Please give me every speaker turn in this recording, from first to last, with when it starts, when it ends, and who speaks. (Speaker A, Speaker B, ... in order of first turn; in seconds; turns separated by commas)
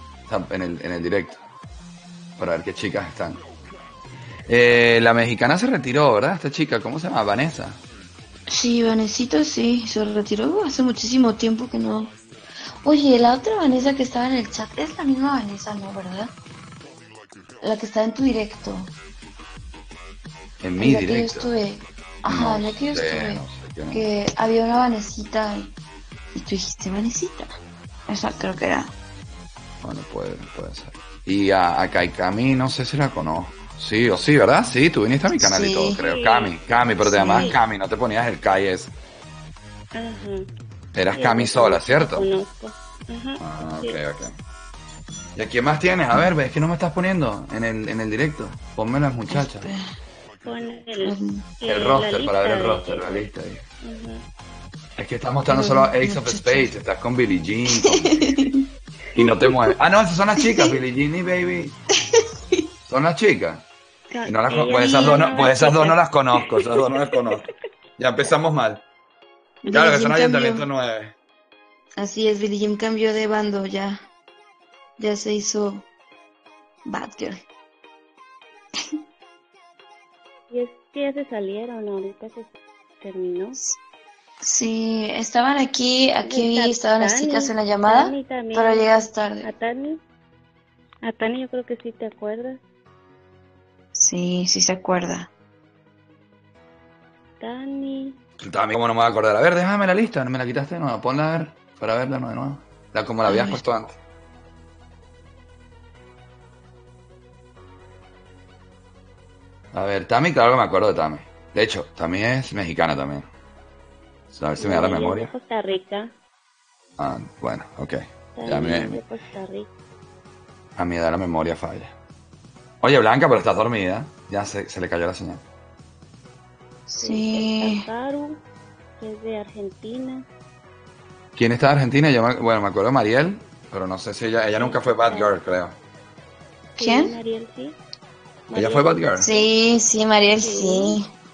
Speaker A: 0.3-1.4, Speaker A: 2.4-3.4, Speaker A: 4.5-7.8, Speaker B: 8.5-12.1, Speaker B: 12.8-16.3, Speaker B: 17.6-18.9, Speaker A: 20.6-21.5, Speaker B: 20.8-25.7, Speaker A: 22.3-24.1, Speaker B: 26.3-27.6, Speaker B: 28.1-28.9, Speaker A: 29.8-38.9, Speaker B: 35.3-36.0, Speaker C: 36.0-36.5, Speaker B: 37.0-37.6, Speaker C: 37.3-37.6, Speaker C: 39.9-40.5, Speaker A: 40.9-42.3, Speaker C: 41.1-44.0, Speaker A: 43.4-44.4, Speaker A: 45.4-49.7, Speaker B: 49.3-49.9, Speaker C: 50.4-53.3, Speaker B: 51.0-51.5, Speaker A: 51.6-53.6, Speaker C: 53.8-54.2, Speaker A: 55.0-58.4, Speaker B: 55.5-56.7, Speaker B: 57.7-58.6, Speaker A: 59.2-61.8, Speaker B: 60.4-60.8, Speaker B: 62.2-62.7, Speaker A: 62.9-63.7, Speaker C: 64.1-66.0, Speaker A: 64.3-67.4, Speaker B: 64.7-65.7, Speaker A: 68.0-68.8, Speaker B: 69.7-70.7, Speaker A: 69.7-71.1, Speaker B: 72.0-74.1, Speaker B: 75.0-75.9, Speaker B: 76.8-77.4, Speaker C: 80.5-83.6, Speaker B: 84.4-89.5, Speaker C: 86.2-90.0, Speaker C: 91.0-92.6, Speaker B: 94.0-95.3, Speaker C: 97.4-98.2, Speaker A: 98.4-104.0, Speaker B: 103.2-103.6, Speaker A: 109.7-113.3, Speaker A: 114.3-115.3, Speaker C: 114.6-116.1, Speaker A: 117.0-119.0, Speaker C: 118.4-119.7, Speaker A: 120.8-121.9, Speaker A: 122.8-125.4, Speaker B: 126.9-127.9, Speaker C: 127.0-128.4, Speaker C: 129.0-130.2, Speaker A: 131.4-135.8, Speaker C: 134.6-135.3, Speaker C: 136.8-137.8, Speaker B: 136.8-137.2, Speaker C: 138.5-139.5, Speaker A: 138.5-139.3, Speaker B: 139.2-141.1, Speaker C: 140.4-141.0